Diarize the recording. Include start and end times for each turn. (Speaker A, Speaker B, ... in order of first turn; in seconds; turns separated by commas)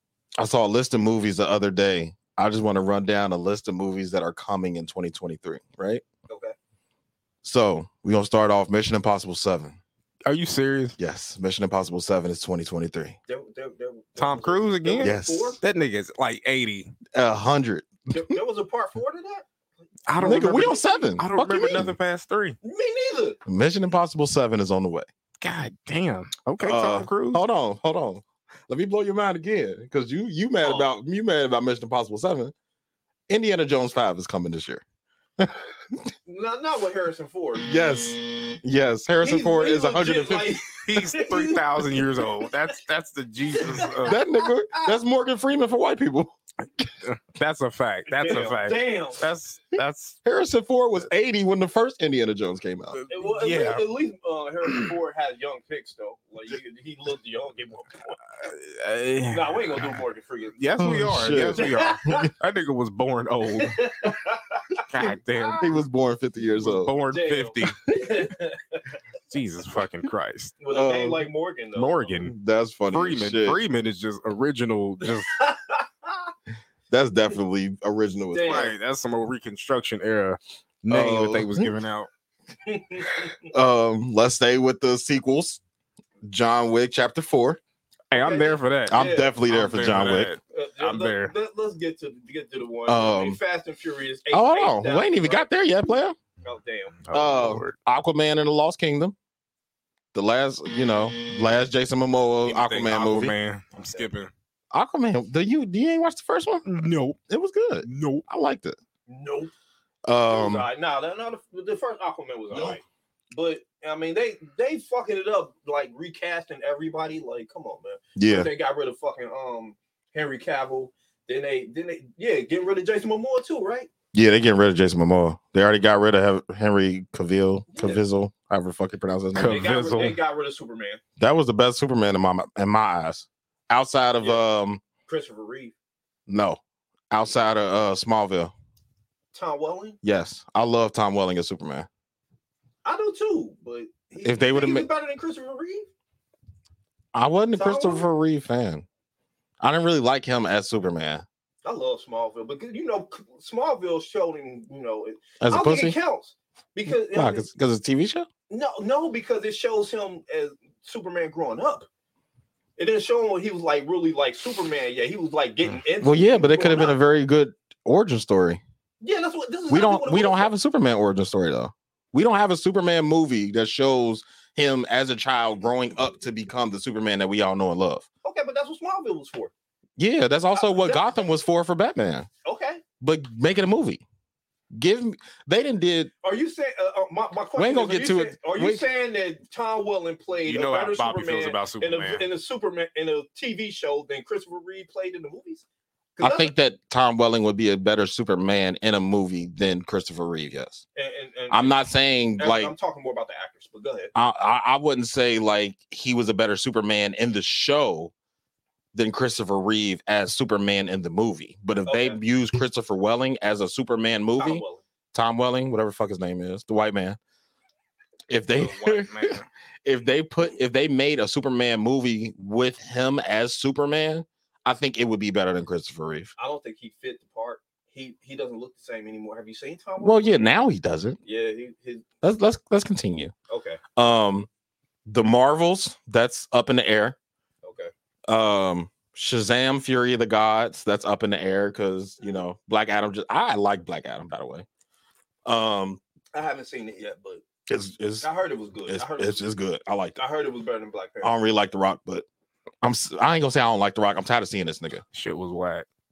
Speaker A: 0.4-6.0, Speaker B: 6.3-6.5, Speaker A: 7.4-9.8, Speaker C: 10.2-11.0, Speaker A: 11.0-13.2, Speaker B: 13.3-15.6, Speaker C: 14.2-16.9, Speaker A: 15.0-15.6, Speaker A: 17.1-18.3, Speaker B: 18.1-19.5, Speaker C: 20.1-22.6, Speaker B: 20.1-21.0, Speaker A: 20.2-21.9, Speaker B: 22.6-23.4, Speaker A: 23.4-25.1, Speaker C: 25.4-27.4, Speaker A: 26.6-32.5, Speaker B: 30.6-30.9, Speaker A: 33.3-34.8, Speaker B: 36.2-37.7, Speaker A: 37.6-40.6, Speaker B: 39.2-42.4, Speaker C: 40.9-44.2, Speaker B: 43.6-44.2, Speaker A: 44.0-46.4, Speaker C: 47.0-50.2, Speaker B: 48.1-49.2, Speaker A: 50.2-53.0, Speaker C: 52.9-53.8, Speaker B: 53.1-58.2, Speaker C: 58.4-60.0, Speaker B: 59.3-60.5, Speaker C: 60.6-63.8, Speaker A: 60.8-62.2, Speaker B: 61.6-62.0, Speaker B: 63.5-64.8, Speaker C: 64.9-65.8, Speaker A: 65.6-66.9, Speaker C: 66.4-67.8, Speaker B: 67.1-68.8, Speaker C: 69.3-70.6, Speaker B: 70.6-72.2, Speaker A: 70.7-71.3, Speaker C: 71.7-72.3, Speaker A: 72.2-73.6, Speaker C: 72.9-75.3, Speaker B: 75.2-76.2, Speaker A: 76.9-78.7, Speaker B: 78.3-78.7, Speaker C: 78.5-82.1, Speaker A: 80.9-81.7, Speaker B: 82.7-83.4, Speaker A: 83.5-85.6, Speaker A: 86.2-87.6, Speaker C: 88.1-91.3, Speaker B: 88.1-89.3, Speaker A: 88.9-90.3, Speaker B: 90.5-95.5, Speaker A: 92.9-93.4, Speaker A: 94.3-96.2, Speaker B: 96.4-97.0, Speaker C: 97.0-97.7, Speaker A: 97.1-99.1, Speaker A: 100.1-103.3, Speaker C: 102.5-104.3, Speaker B: 103.8-104.1, Speaker A: 104.7-106.6, Speaker C: 106.6-107.2, Speaker A: 107.3-108.8, Speaker C: 107.8-108.2, Speaker B: 109.1-109.5, Speaker A: 110.0-110.7, Speaker B: 110.3-123.9, Speaker A: 118.2-118.5, Speaker A: 124.1-129.7, Speaker B: 127.7-128.0, Speaker C: 129.3-130.2, Speaker B: 129.4-131.0, Speaker A: 131.2-134.8, Speaker B: 135.1-135.7, Speaker A: 136.3-136.6, Speaker A: 137.1-138.5, Speaker B: 139.3-140.0, Speaker A: 140.0-141.9, Speaker B: 142.8-145.9, Speaker A: 144.2-144.9, Speaker A: 147.1-148.8, Speaker B: 147.6-148.1, Speaker A: 149.6-151.2, Speaker B: 151.6-157.4, Speaker A: 155.4-156.0, Speaker A: 156.9-158.3, Speaker B: 158.5-161.9, Speaker B: 162.8-167.0, Speaker A: 166.0-168.6, Speaker B: 169.0-170.5, Speaker A: 169.7-178.1, Speaker B: 178.2-179.5, Speaker A: 180.0-182.3, Speaker B: 180.5-181.0, Speaker B: 182.4-182.8, Speaker A: 183.0-184.0, Speaker A: 184.7-186.1, Speaker B: 186.2-195.6, Speaker A: 187.6-188.8, Speaker C: 190.4-192.2, Speaker B: 196.2-196.5, Speaker A: 196.2-200.8, Speaker B: 200.9-201.8, Speaker A: 201.5-202.7, Speaker B: 202.4-204.1, Speaker A: 204.1-208.1, Speaker A: 208.9-217.2, Speaker B: 211.8-212.2, Speaker B: 214.4-214.8, Speaker A: 218.3-226.3, Speaker C: 218.6-219.4, Speaker B: 226.4-230.5, Speaker A: 230.0-231.2, Speaker B: 231.2-232.1, Speaker A: 232.2-233.3, Speaker B: 233.5-233.8, Speaker A: 233.9-234.5, Speaker A: 235.1-237.2, Speaker B: 237.6-237.9, Speaker A: 238.3-244.7, Speaker A: 245.4-246.0, Speaker B: 246.3-247.4, Speaker A: 247.7-248.3, Speaker B: 248.2-249.4, Speaker A: 248.9-250.2, Speaker B: 250.2-251.3, Speaker A: 251.2-252.2, Speaker A: 252.8-255.0, Speaker C: 255.1-255.8